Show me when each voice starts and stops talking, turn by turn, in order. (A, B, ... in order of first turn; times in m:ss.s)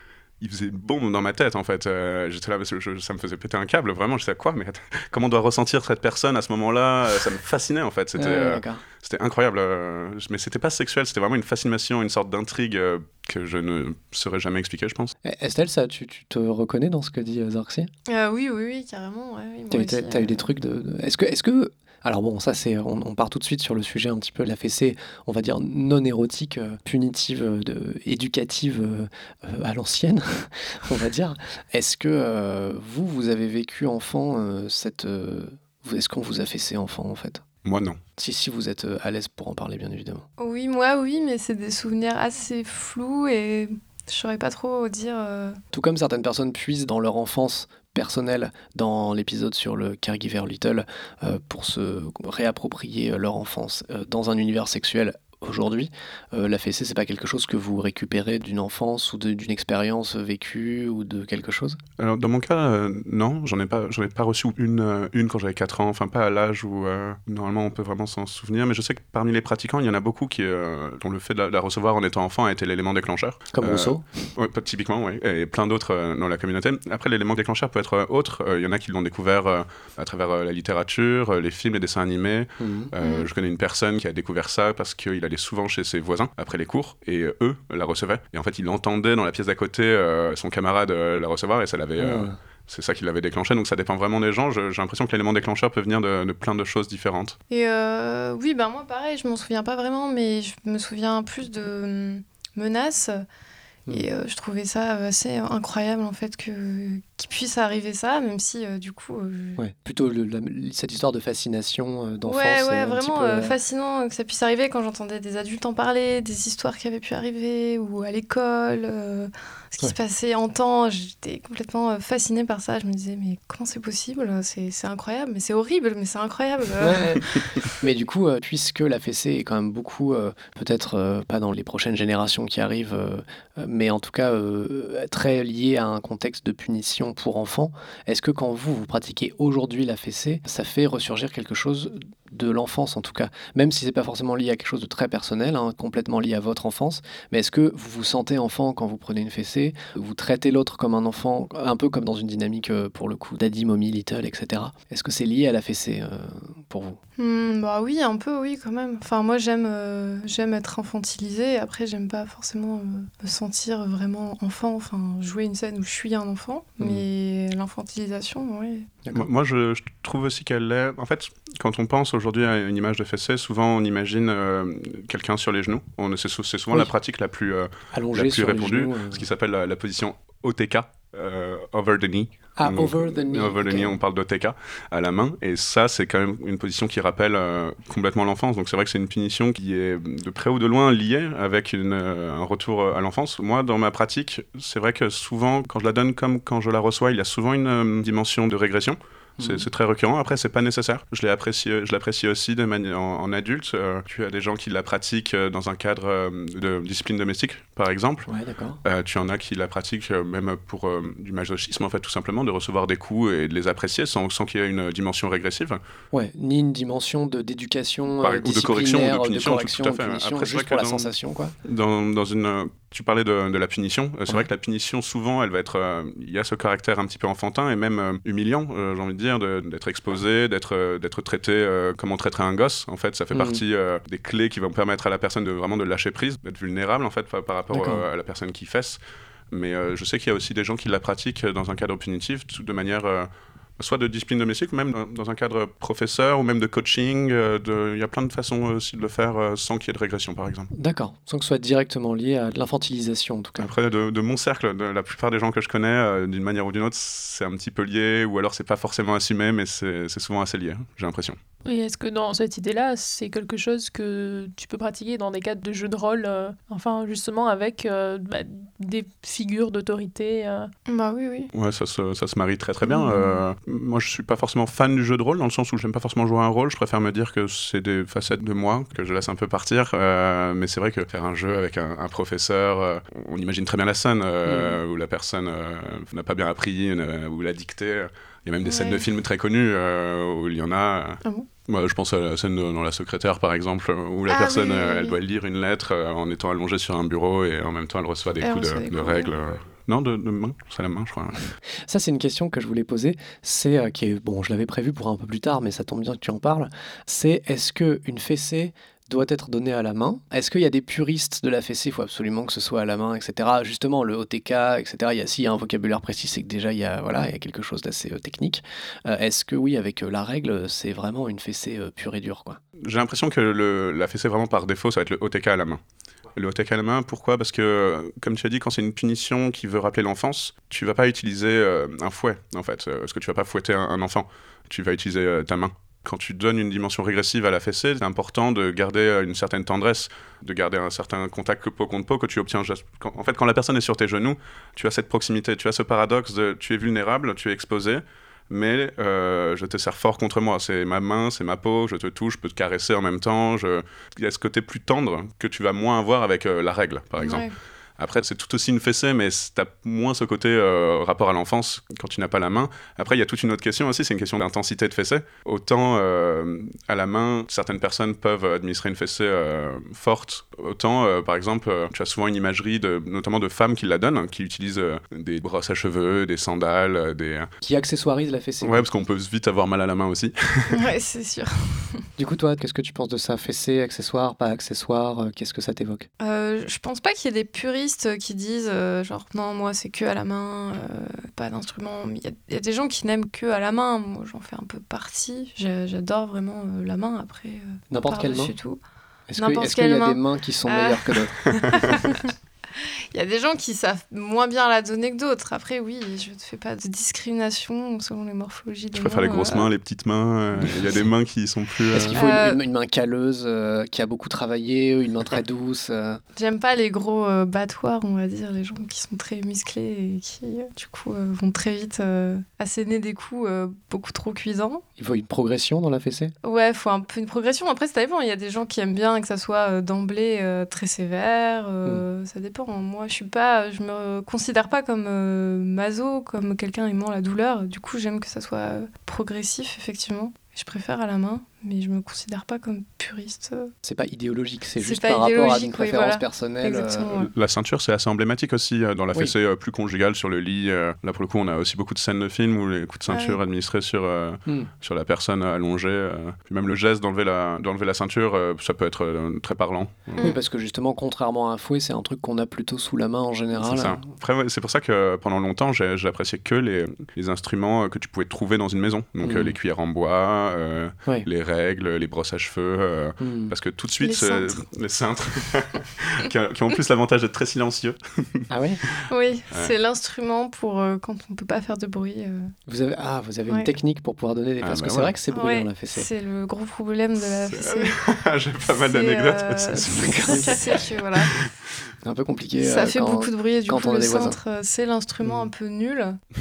0:00.4-0:15.1 A
0:08.2-0:08.8 B
0:15.2-0:17.9 B
0:18.1-0:20.5 C
0:19.7-0:37.4 B
0:37.6-0:38.0 A
0:38.2-0:40.2 B
0:40.4-0:45.6 C
0:45.7-1:01.8 B
1:02.0-1:37.4 A
1:13.5-1:14.3 B
1:22.6-1:22.9 B
1:23.0-1:23.3 C
1:32.0-1:32.4 B
1:37.5-1:43.2 C
1:43.9-1:49.6 C
1:49.6-1:53.5 B
1:52.2-2:07.4 C
2:06.8-2:07.2 B
2:07.8-2:37.0 B
2:37.2-2:48.9 C
2:49.1-3:28.3 A
2:57.9-2:59.2 B
3:02.6-3:03.9 B
3:19.4-3:19.6 B
3:28.3-3:28.8 B
3:28.8-3:35.8 A
3:36.1-3:41.5 B
3:38.2-3:41.1 A
3:41.6-3:59.0 A
3:53.3-3:53.6 B
3:57.7-3:58.0 B
3:59.5-4:10.7 A
4:10.7-4:13.7 B
4:13.6-4:21.4 A
4:21.6-4:30.7 D
4:30.9-4:31.5 C
4:31.5-5:01.5 A
4:32.8-4:33.4 C
4:44.4-4:44.8 B
4:48.6-4:49.0 C
4:54.3-4:55.2 C
4:58.4-4:59.3 C
5:01.9-5:22.6 B
5:22.8-5:25.8 A
5:26.3-5:57.5 A
5:57.2-5:57.5 C
5:58.0-6:17.5 A
6:17.6-6:18.8 B
6:18.6-6:20.8 A
6:20.7-6:22.0 C
6:22.2-6:26.1 B
6:26.2-6:38.8 C
6:37.9-6:38.5 B
6:39.3-6:41.9 B
6:39.4-6:49.7 C
6:48.9-6:52.2 A
6:51.9-6:56.2 B
6:52.1-6:52.6 C
6:56.4-7:04.8 C
7:05.0-7:06.3 B
7:06.4-7:23.7 C
7:23.8-7:27.1 B
7:24.8-7:27.3 C
7:27.1-7:40.3 A
7:33.1-7:33.4 C
7:40.2-7:44.0 B
7:43.5-7:59.7 A
7:49.2-7:49.6 B
7:53.2-7:53.5 B
7:54.0-7:54.6 C
7:58.5-7:58.8 B
7:59.1-8:02.5 C
8:02.7-8:06.1 B
8:03.5-8:03.7 C
8:04.6-8:05.2 A
8:05.3-8:07.9 C
8:07.4-8:11.9 A
8:08.7-8:11.3 C
8:09.9-8:10.6 B
8:12.0-8:14.4 B
8:12.6-8:16.2 C